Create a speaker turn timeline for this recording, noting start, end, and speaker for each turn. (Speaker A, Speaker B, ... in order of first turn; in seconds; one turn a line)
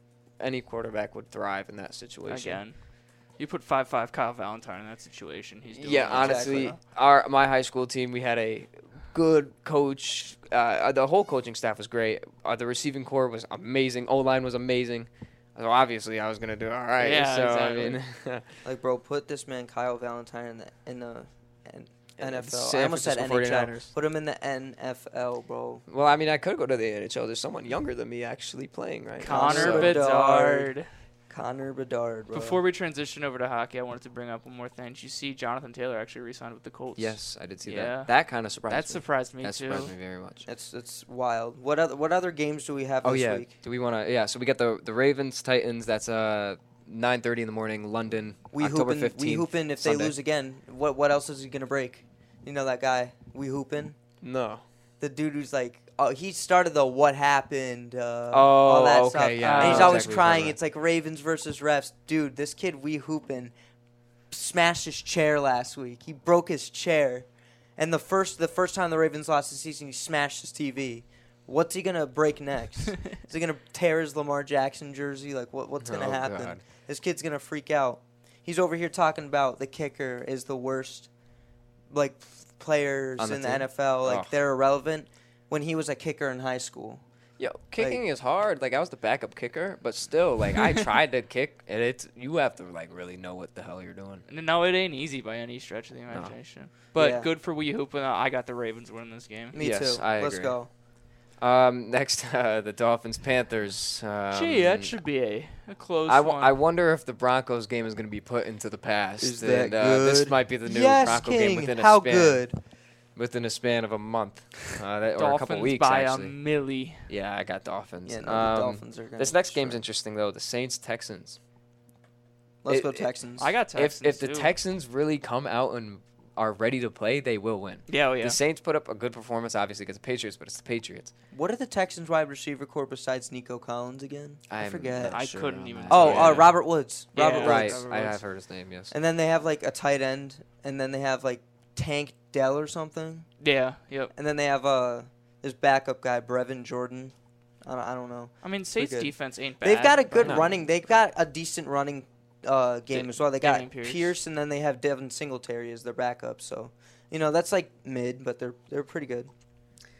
Speaker A: 0.4-2.6
Speaker B: 2.3-2.7
Speaker B: 3.4-6.8
Speaker A: 5.7-18.4
Speaker C: 6.1-6.7
Speaker B: 17.0-18.0
Speaker C: 18.6-25.8
Speaker A: 22.2-23.9
Speaker A: 25.9-30.0
Speaker B: 29.2-30.9
Speaker C: 29.3-30.7
Speaker C: 31.3-32.6
Speaker B: 32.3-38.1
Speaker A: 37.0-40.5
Speaker B: 38.7-39.9
Speaker C: 40.5-43.5
Speaker A: 43.0-50.1
Speaker C: 48.5-54.0
Speaker A: 54.2-54.6
Speaker C: 55.0-63.5
Speaker A: 58.3-60.5
Speaker B: 59.4-60.1
Speaker C: 64.3-81.1
Speaker A: 75.8-76.6
Speaker C: 81.9-87.0
Speaker A: 83.2-84.4
Speaker A: 87.4-94.2
Speaker B: 94.3-99.5
Speaker A: 96.1-96.3
Speaker C: 96.9-97.3
Speaker C: 99.5-100.7
Speaker A: 99.6-100.6
Speaker A: 101.4-105.0
Speaker B: 104.3-106.5
Speaker A: 106.0-112.4
Speaker C: 109.2-112.6
Speaker A: 113.1-116.3
Speaker B: 115.2-117.1
Speaker A: 117.1-121.4
Speaker C: 118.0-119.8
Speaker C: 122.6-123.5
Speaker A: 122.7-123.1
Speaker B: 123.4-124.5
Speaker A: 123.7-131.1
Speaker B: 127.9-128.4
Speaker C: 131.3-135.2
Speaker A: 134.5-136.5
Speaker B: 135.0-136.6
Speaker C: 135.9-137.9
Speaker B: 137.1-138.2
Speaker A: 137.3-138.9
Speaker C: 138.9-143.3
Speaker B: 143.4-144.1
Speaker C: 144.1-147.1
Speaker C: 147.6-159.3
Speaker B: 148.4-150.5
Speaker A: 150.2-150.5
Speaker B: 153.0-154.2